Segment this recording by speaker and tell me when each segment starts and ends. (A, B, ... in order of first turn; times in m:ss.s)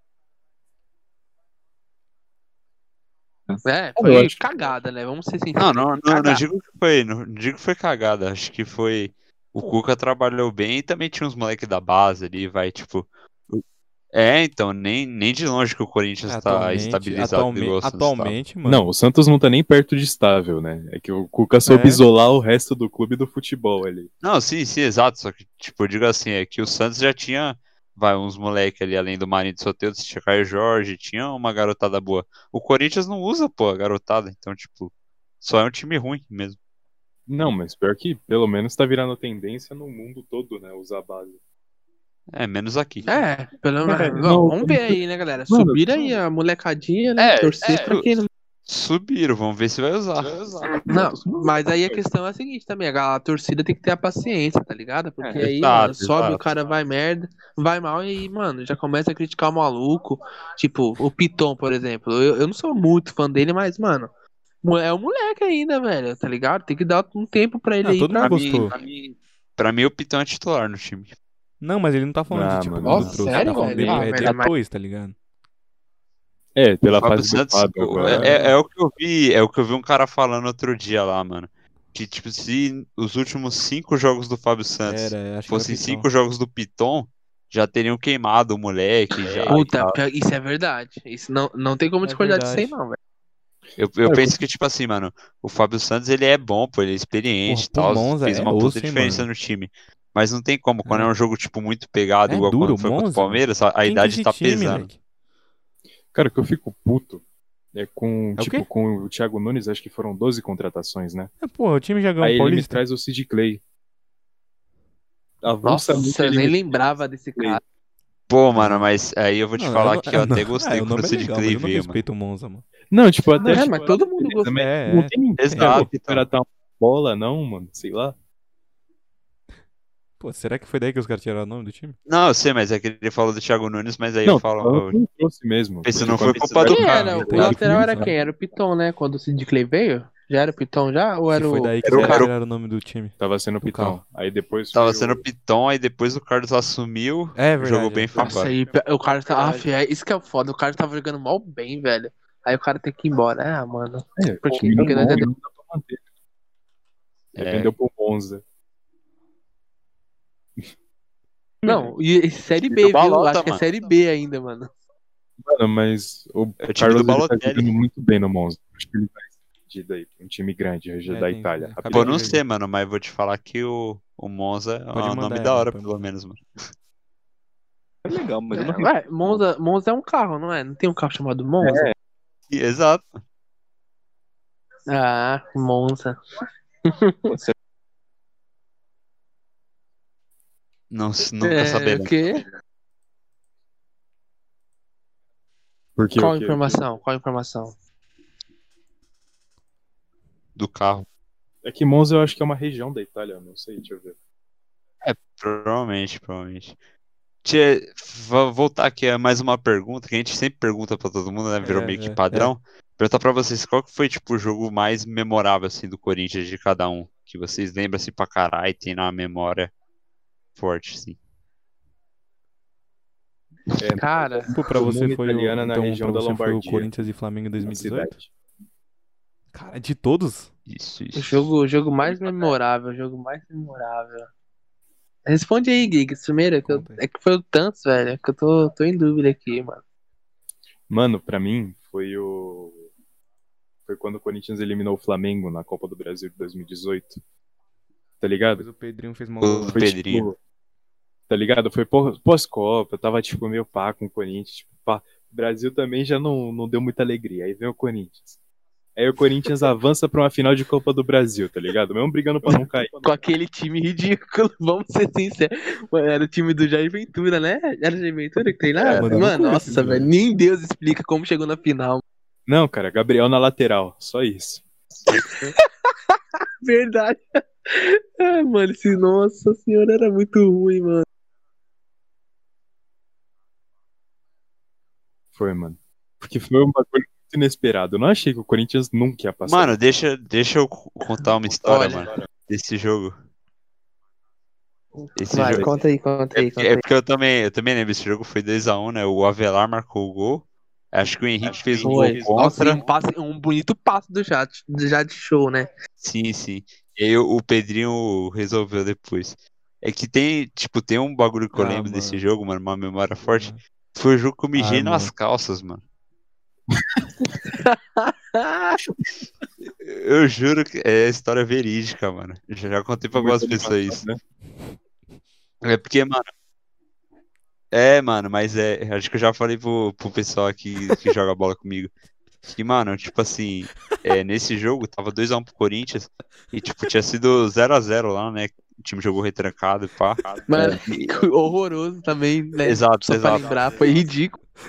0:03.5-0:04.3 A
0:03.6-0:06.4 B
0:05.6-0:18.4 C
0:16.3-0:18.8 D
0:18.6-0:24.1 E
0:21.6-0:22.0 D
0:24.2-0:36.6 C
0:37.3-0:41.4 E
0:42.3-0:43.1 C
0:43.0-0:48.3 B
0:43.8-0:46.1 E
0:47.2-0:48.1 C
0:48.7-0:50.4 C
0:50.2-0:52.0 A
0:50.7-1:04.1 B
0:55.2-0:55.5 A
0:55.4-0:56.5 C
1:04.6-1:08.6 B
1:07.8-1:08.7 D
1:08.2-1:11.1 C
1:11.6-1:15.1 D
1:12.3-1:14.0 E
1:12.8-1:14.5 B
1:13.8-1:14.0 A
1:16.6-1:18.4 E
1:16.9-1:30.0 C
1:18.0-1:18.5 D
1:24.8-1:26.0 D
1:29.3-1:29.6 A
1:29.5-1:33.0 B
1:32.0-1:32.7 D
1:33.8-1:44.9 C
1:37.4-1:39.3 D
1:40.8-1:41.1 D
1:42.3-1:45.0 D
1:46.1-1:47.2 E
1:47.7-1:51.3 E
1:48.4-1:48.6 D
1:51.4-1:52.8 D
1:52.2-1:53.6 E
1:55.4-1:56.8 E
1:55.6-1:57.6 B
1:58.3-2:02.0 C
1:58.5-1:58.8 D
1:59.6-2:02.6 D
2:02.9-2:08.1 E
2:03.4-2:04.5 B
2:04.5-2:05.9 D
2:05.4-2:06.3 C
2:10.2-2:12.0 D
2:12.1-2:15.0 C
2:14.2-2:18.1 E
2:15.8-2:17.5 C
2:16.0-2:16.7 A
2:16.7-2:22.2 B
2:16.7-2:18.1 D
2:21.3-2:24.0 D
2:21.8-2:22.3 C
2:23.2-2:25.2 E
2:24.7-2:28.5 C
2:27.3-2:28.3 D
2:28.2-2:35.3 B
2:34.2-2:36.0 E
2:34.7-2:35.1 A
2:37.3-2:37.7 C
2:37.4-2:38.4 E
2:41.6-2:44.7 B
2:42.7-2:43.6 C
2:45.4-2:52.2 E
2:46.6-2:47.7 C
2:51.1-2:52.4 D
2:51.9-2:56.4 C
2:54.9-2:55.9 D
2:58.0-2:59.4 A
2:58.5-3:01.9 B
3:01.6-3:01.9 A
3:02.5-3:03.2 C
3:04.9-3:06.2 B
3:06.8-3:07.4 B
3:10.9-3:12.2 C
3:11.4-3:12.4 B
3:16.0-3:16.8 E
3:16.1-3:17.8 B
3:20.6-3:21.0 C
3:21.6-3:24.1 E
3:25.0-3:26.8 C
3:27.4-3:39.7 C
3:31.6-3:32.5 D
3:40.6-3:41.2 C
3:43.8-3:47.1 E
3:43.9-3:44.6 B
3:44.5-3:48.2 D
3:47.6-3:48.3 E
3:49.5-3:50.5 D
3:50.7-3:51.5 C
3:51.1-3:54.3 B
3:55.2-3:59.8 B
3:56.6-3:57.0 D
4:00.9-4:02.9 E
4:03.8-4:07.2 E
4:08.2-4:08.6 E
4:08.5-4:09.9 D
4:09.4-4:10.3 C
4:09.7-4:10.4 E
4:11.3-4:18.4 E
4:19.0-4:23.2 E
4:23.0-4:32.0 B
4:28.8-4:29.2 C
4:28.9-4:30.1 D
4:32.5-4:34.6 E
4:35.1-4:41.0 B
4:45.3-4:49.8 E
4:49.4-4:53.1 C
4:51.6-4:52.1 B
4:54.9-4:56.8 B
4:55.2-4:55.7 C
4:56.3-5:02.8 C
5:01.8-5:05.7 B
5:06.0-5:15.8 C
5:11.5-5:12.2 D
5:13.3-5:13.6 D
5:14.5-5:15.1 D
5:17.4-5:18.8 B
5:19.8-5:24.0 C
5:23.1-5:24.2 E
5:25.6-5:26.3 C
5:27.7-5:31.9 C
5:32.4-5:40.6 C
5:40.5-5:44.4 B
5:40.5-5:40.8 E
5:42.6-5:44.0 C